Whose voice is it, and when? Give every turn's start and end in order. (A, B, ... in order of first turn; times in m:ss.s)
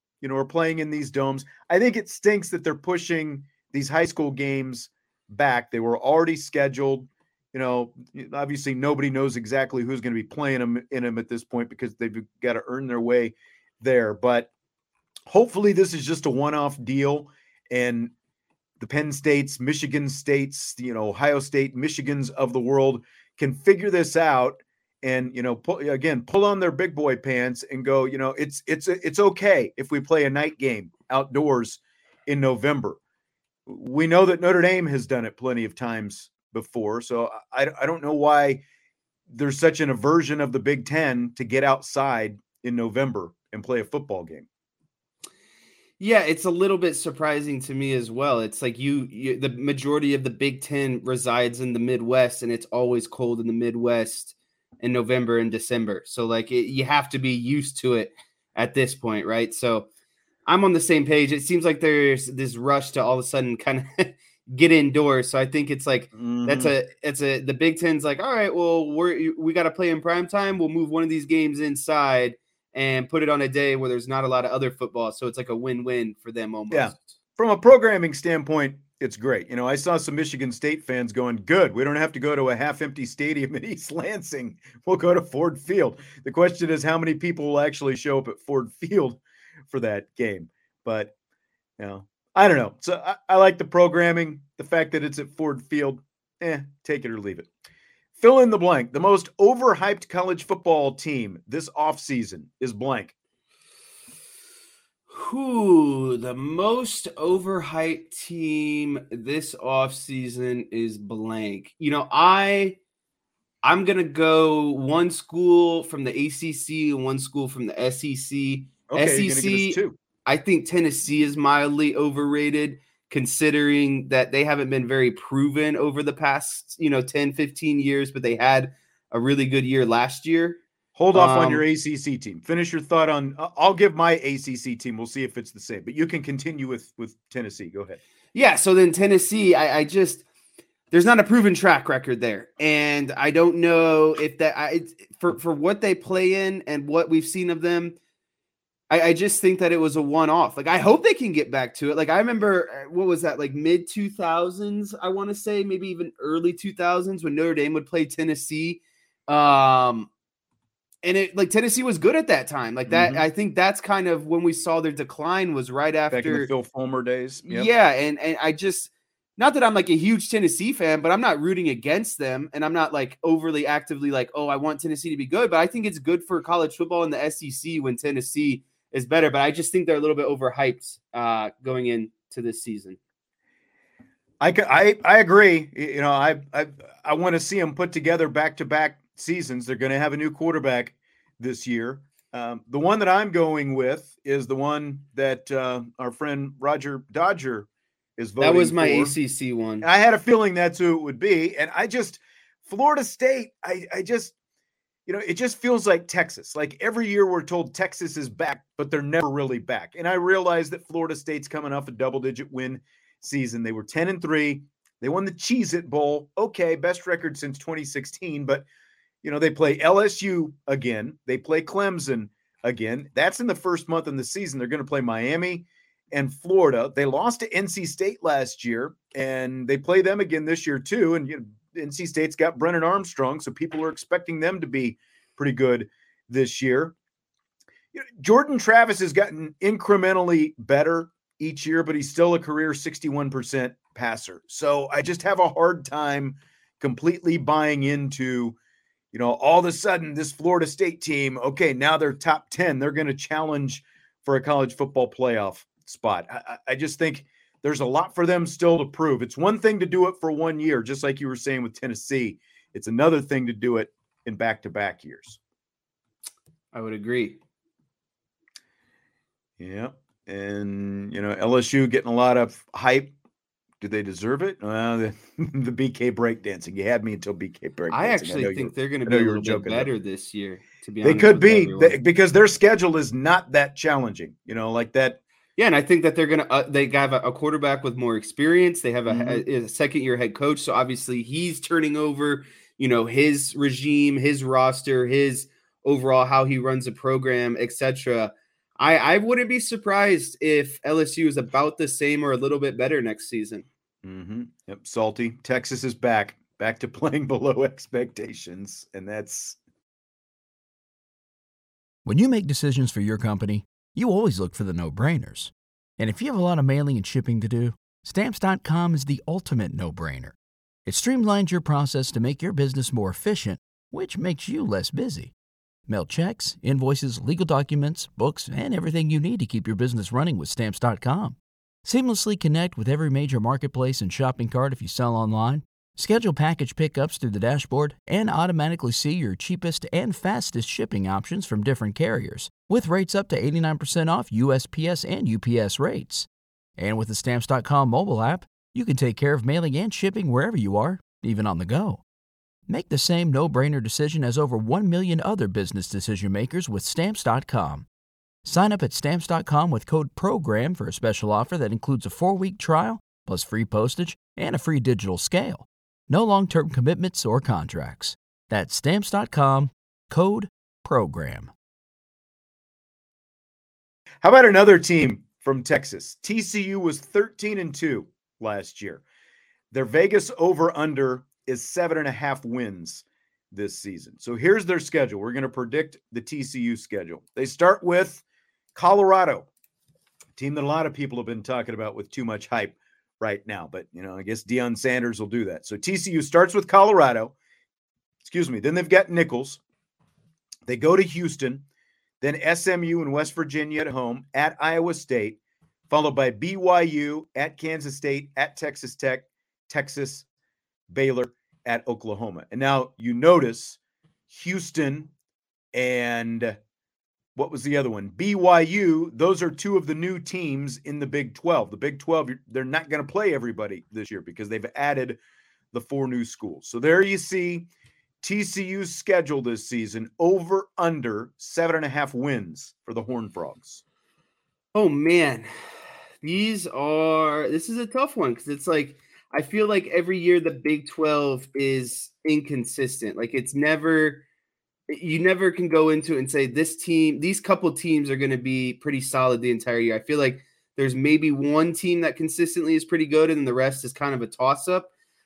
0:00.2-0:14.5 A
0:15.3-0:18.1 A
0:18.8-0:33.0 A
0:33.6-0:38.6 A
0:39.3-0:44.4 A
0:46.0-0:59.9 B
1:00.4-1:17.2 B
1:06.2-1:06.7 A
1:16.7-1:31.1 A
1:31.8-1:37.5 A
1:38.2-1:43.1 A
1:45.1-1:52.8 B
1:53.6-2:10.6 B
1:58.9-2:00.0 A
2:11.0-2:18.0 A
2:11.1-2:11.6 B
2:18.3-2:20.2 B
2:20.9-2:28.0 B
2:28.9-2:40.1 B
2:41.0-2:46.5 B
2:42.9-2:43.2 A
2:46.1-2:47.7 A
2:47.4-3:03.0 B
3:04.4-3:19.2 A
3:18.4-3:19.8 B
3:19.8-3:24.3 A
3:25.0-3:38.6 A
3:39.2-3:56.9 A
3:57.9-4:08.6 A
4:09.1-4:25.4 A
4:26.7-4:27.4 B
4:29.6-4:33.1 A
4:33.8-4:39.9 A
4:37.9-4:42.0 B
4:41.0-4:45.2 A
4:45.6-5:03.6 B
4:49.1-4:49.4 A
5:04.0-5:09.6 A
5:12.0-5:25.3 C
5:25.9-5:52.0 C
5:52.7-5:57.9 C
5:58.4-6:11.5 C
6:14.2-6:19.0 A
6:19.7-6:28.2 A
6:28.7-6:29.5 A
6:30.4-6:37.3 A
6:38.2-6:39.6 A
6:40.6-6:41.6 A
6:42.2-6:45.4 A
6:45.9-6:50.2 A
6:50.9-6:53.8 A
6:54.3-6:55.1 A
6:55.7-6:56.6 A
6:57.3-7:05.2 A
7:05.7-7:07.7 A
7:08.2-7:13.8 A
7:14.7-7:15.5 B
7:16.2-7:24.2 B
7:24.9-7:34.9 B